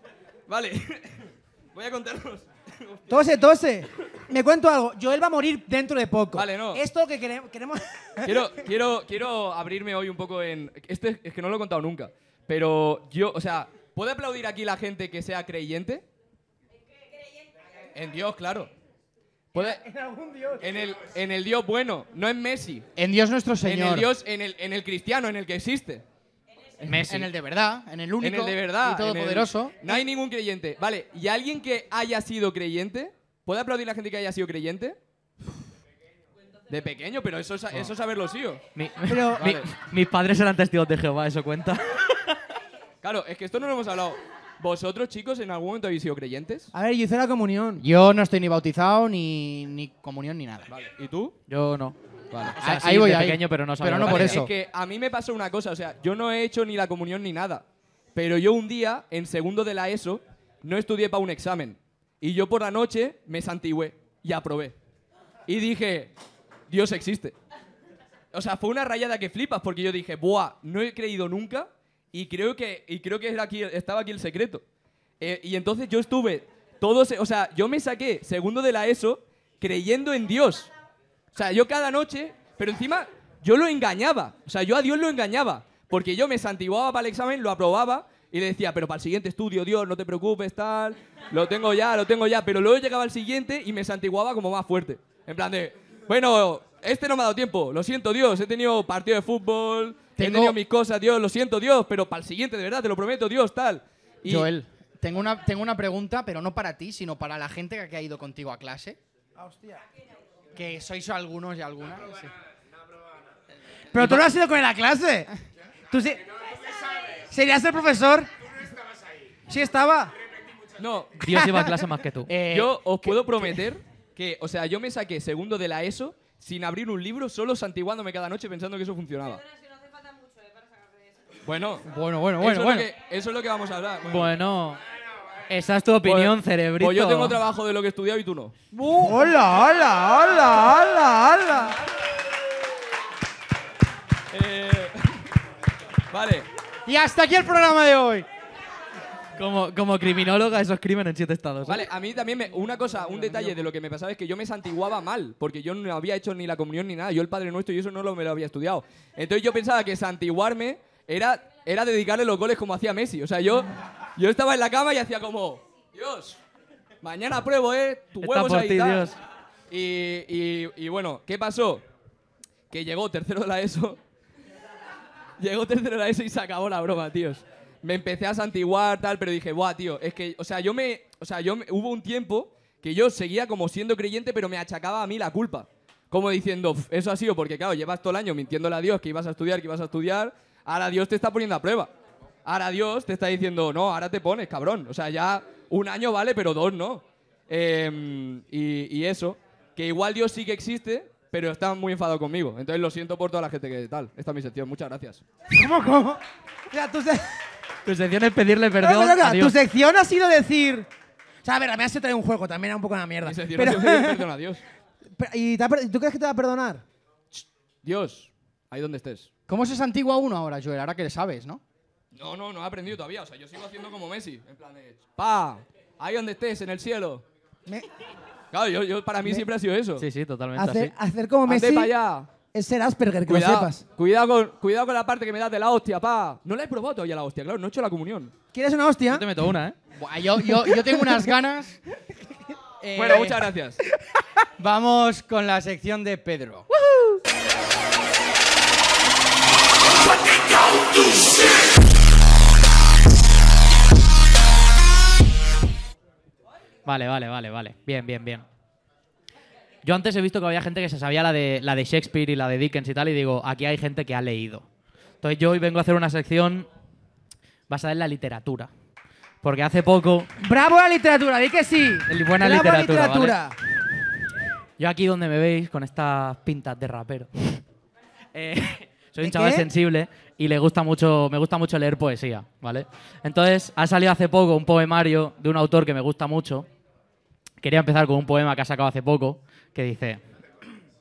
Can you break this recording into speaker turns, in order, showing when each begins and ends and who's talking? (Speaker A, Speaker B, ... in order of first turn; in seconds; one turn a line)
Speaker A: 0.5-3.0
Speaker B: 3.1-8.3
Speaker A: 6.3-6.8
Speaker A: 8.2-16.0
Speaker C: 16.9-17.8
Speaker A: 17.9-18.7
Speaker A: 19.5-19.8
Speaker B: 19.5-20.7
Speaker A: 20.6-22.9
Speaker D: 22.9-24.1
Speaker A: 23.6-26.0
Speaker E: 26.8-27.3
Speaker D: 26.9-29.8
Speaker A: 28.2-35.0
Speaker A: 36.7-38.6
Speaker E: 38.7-42.4
Speaker B: 39.1-39.4
Speaker A: 39.4-39.6
Speaker A: 43.0-46.7
Speaker B: 46.7-47.8
Speaker D: 47.8-50.7
Speaker A: 50.7-51.3
Speaker E: 51.5-52.0
Speaker A: 52.3-52.6
Speaker E: 52.6-54.4
Speaker D: 52.6-54.5
Speaker A: 54.0-64.8
Speaker A: 65.5-66.1
Speaker A: 66.7-67.3
Speaker A: 68.3-74.6
Speaker A: 75.2-80.7
Speaker A: 81.3-104.5
Speaker D: 100.2-100.6
Speaker D: 104.2-109.0
Speaker B: 109.4-109.8
Speaker D: 110.5-112.3
Speaker B: 113.9-115.3
Speaker E: 114.0-114.2
Speaker B: 115.9-116.2
Speaker B: 117.3-118.3
Speaker B: 119.5-120.1
Speaker A: 120.8-121.2
Speaker E: 121.2-122.3
Speaker D: 122.3-123.5
Speaker A: 122.5-129.4
Speaker C: 129.2-131.5
Speaker A: 131.4-131.8
Speaker D: 131.8-132.9
Speaker A: 132.4-134.3
Speaker E: 134.0-134.8
Speaker E: 135.5-137.4
Speaker A: 136.0-138.5
Speaker B: 138.8-141.8
Speaker A: 144.3-145.2
Speaker A: 146.1-146.5
Speaker D: 146.8-148.3
Speaker E: 149.4-151.8
Speaker A: 151.7-166.4
Speaker A: 167.0-169.1
Speaker E: 168.2-169.2
Speaker A: 169.7-171.8
Speaker A: 172.7-174.0
Speaker A: 175.4-191.9
Speaker A: 192.4-205.2
Speaker B: 205.5-207.3
Speaker E: 207.8-209.5
Speaker B: 208.8-210.9
Speaker B: 211.4-214.3
Speaker A: 213.2-214.6
Speaker B: 215.2-216.8
Speaker A: 217.8-219.3
Speaker D: 219.5-221.6
Speaker A: 222.1-227.2
Speaker A: 228.5-230.0
Speaker E: 230.0-230.9
Speaker B: 230.6-231.9
Speaker A: 231.4-232.3
Speaker B: 232.5-233.8
Speaker A: 233.3-238.3
Speaker B: 238.5-239.2
Speaker E: 239.1-239.8
Speaker D: 239.9-241.8
Speaker D: 242.8-243.4
Speaker A: 242.9-243.8
Speaker D: 244.6-246.7
Speaker E: 256.9-258.4
Speaker E: 259.8-264.6
Speaker E: 265.2-266.7
Speaker E: 267.7-268.7
Speaker E: 269.4-270.3
Speaker B: 270.4-273.5
Speaker E: 272.1-273.4
Speaker E: 274.8-277.6
Speaker E: 278.3-286.7
Speaker B: 279.2-279.6
Speaker E: 287.6-290.2